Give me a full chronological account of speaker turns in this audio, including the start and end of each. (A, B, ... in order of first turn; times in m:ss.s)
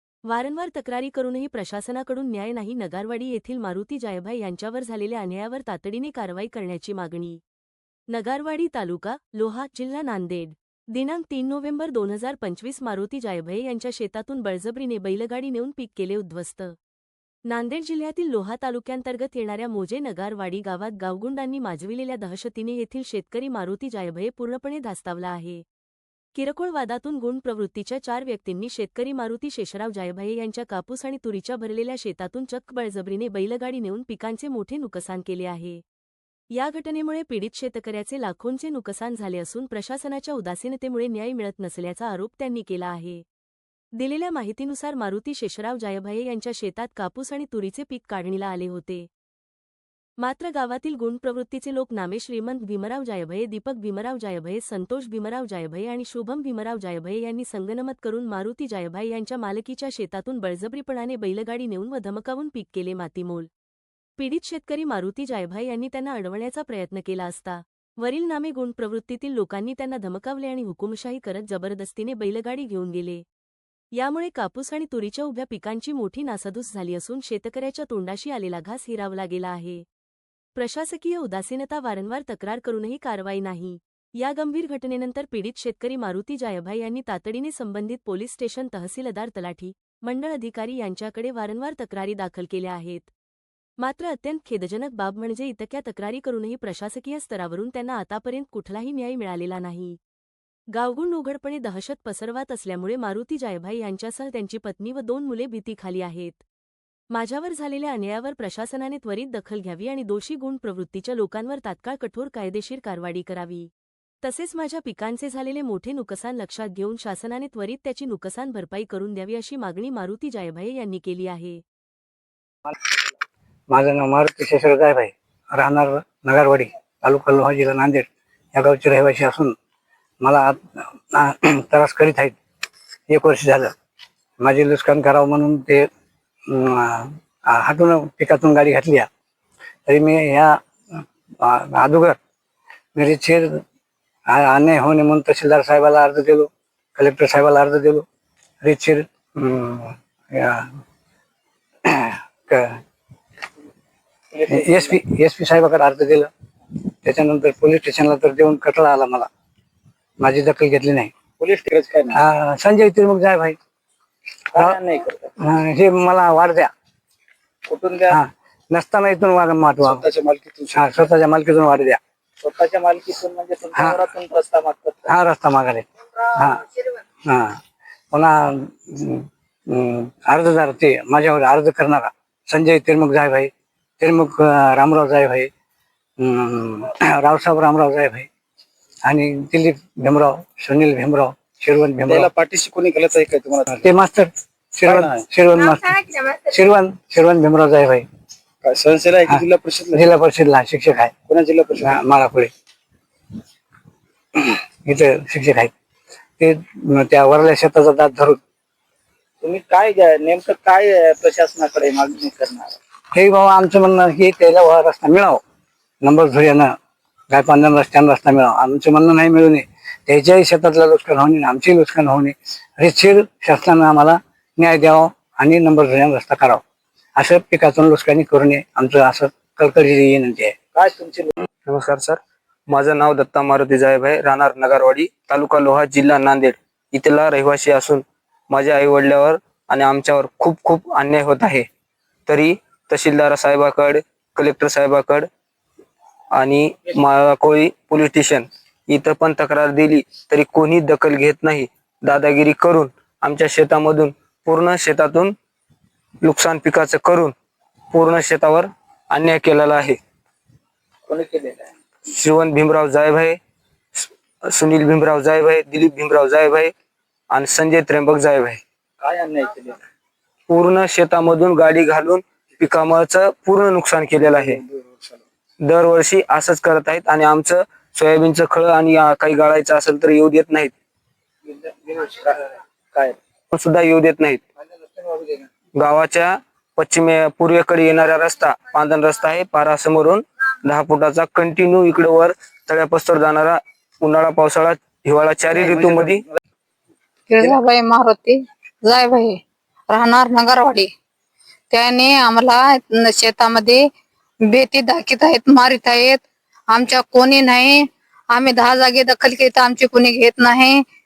0:00.3-0:07.4 A
0:08.1-0:16.7 A
0:17.5-0:25.6 A
0:26.3-0:35.8 A
0:36.5-0:43.2 A
0:44.0-0:49.1 A
0:50.2-1:03.5 A
1:04.2-1:13.2 A
1:13.9-1:19.8 A
1:20.6-1:33.1 A
1:33.8-1:40.0 A
1:40.7-1:46.4 A
1:47.1-1:53.7 A
1:54.2-2:01.6 A
2:03.7-2:09.5 B
2:10.2-2:12.4 B
2:13.1-2:13.7 B
2:14.4-2:15.9 B
2:16.5-2:19.1 B
2:19.8-2:22.2 B
2:22.9-2:23.6 B
2:24.3-2:28.0 B
2:28.6-2:30.7 B
2:31.8-2:32.8 B
2:34.3-2:35.0 C
2:34.5-2:36.3 B
2:37.0-2:39.3 B
2:40.2-2:41.1 B
2:41.4-2:42.2 C
2:42.1-2:43.6 B
2:44.5-2:45.3 C
2:45.4-2:46.7 B
2:47.6-2:48.2 C
2:48.1-2:50.0 B
2:49.8-2:51.0 C
2:50.7-2:52.0 B
2:52.4-2:55.1 C
2:53.7-2:54.0 B
2:55.1-2:56.6 B
2:57.2-2:57.6 B
2:58.1-3:05.5 B
3:06.2-3:08.3 B
3:09.0-3:12.3 B
3:12.0-3:13.8 C
3:13.8-3:18.0 B
3:14.8-3:15.2 C
3:18.6-3:20.2 C
3:19.3-3:21.1 B
3:21.3-3:22.0 C
3:21.8-3:22.5 B
3:24.3-3:25.7 B
3:26.4-3:28.4 B
3:29.4-3:32.8 C
3:33.1-3:35.4 B
3:36.0-3:36.7 B
3:37.3-3:46.6 B
3:47.2-3:50.5 B
3:50.7-3:51.3 C
3:51.6-4:01.7 D
4:02.3-4:05.3 D
4:06.3-4:15.3 D
4:16.2-4:17.3 D
4:17.9-4:20.0 D
4:21.1-4:21.7 C
4:22.1-4:23.4 D
4:24.0-4:26.7 D
4:27.3-4:28.6 D
4:29.0-4:29.8 C
4:30.5-4:34.6 D
4:34.2-4:35.2 C
4:35.6-4:40.7 D
4:41.5-4:43.2 C
4:43.5-4:44.4 D
4:45.8-4:56.2 D
4:57.3-4:59.4 E
4:59.9-5:00.9 E
5:01.7-5:03.8 E
5:04.5-5:10.8 E